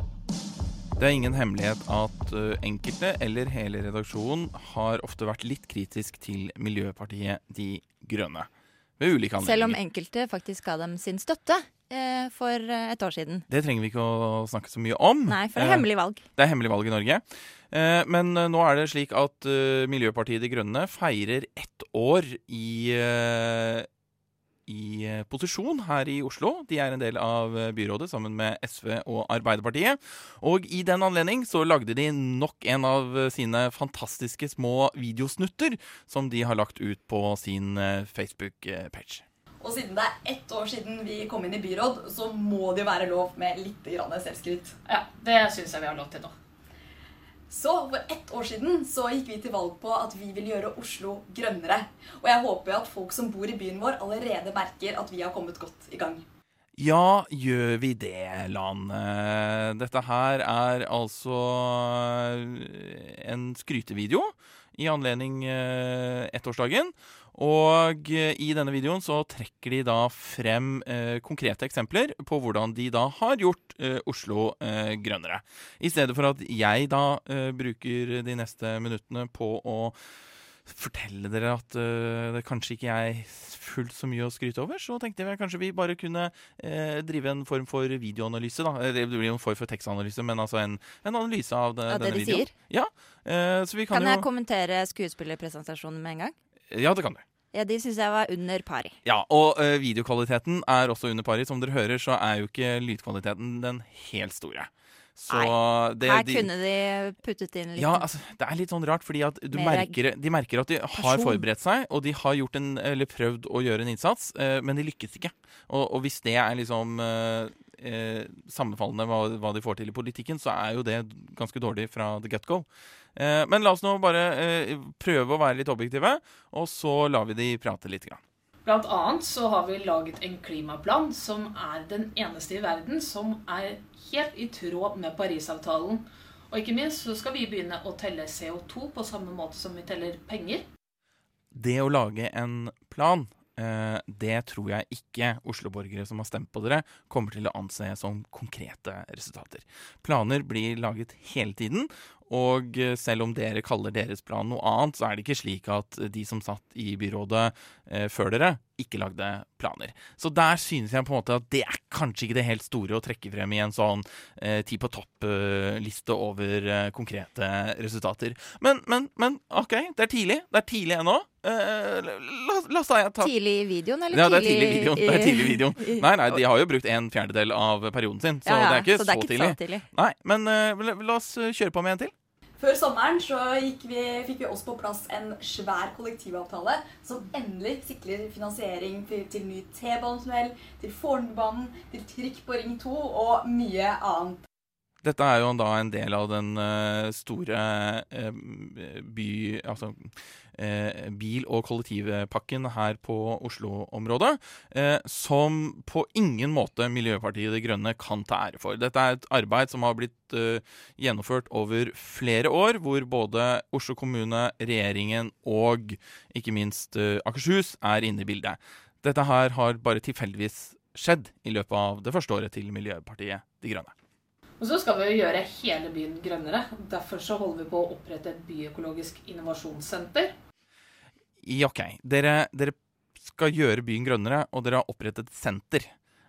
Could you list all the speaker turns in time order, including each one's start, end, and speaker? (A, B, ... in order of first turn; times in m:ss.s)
0:01.0-0:09.8 A
0:09.4-0:13.4 B
0:13.5-0:23.9 A
0:15.3-0:16.2 B
0:24.7-0:39.2 A
0:39.6-0:44.8 C
0:44.8-0:46.3 D
0:47.5-0:56.2 C
0:56.8-1:20.0 A
1:20.6-1:34.3 A
1:31.9-1:32.5 B
1:33.9-1:36.3 B
1:36.7-1:37.2 A
1:37.5-1:38.9 B
1:39.0-1:46.5 A
1:45.3-1:48.0 B
1:47.7-2:08.2 A
1:49.5-1:50.0 B
1:50.9-1:51.4 B
2:08.6-2:20.6 D
2:21.5-2:53.3 A
2:53.2-2:56.4 B
2:54.1-3:02.1 A
2:58.4-2:59.8 B
3:02.6-3:14.4 C
3:15.0-3:43.9 A
3:44.6-3:50.3 D
3:51.4-3:55.9 A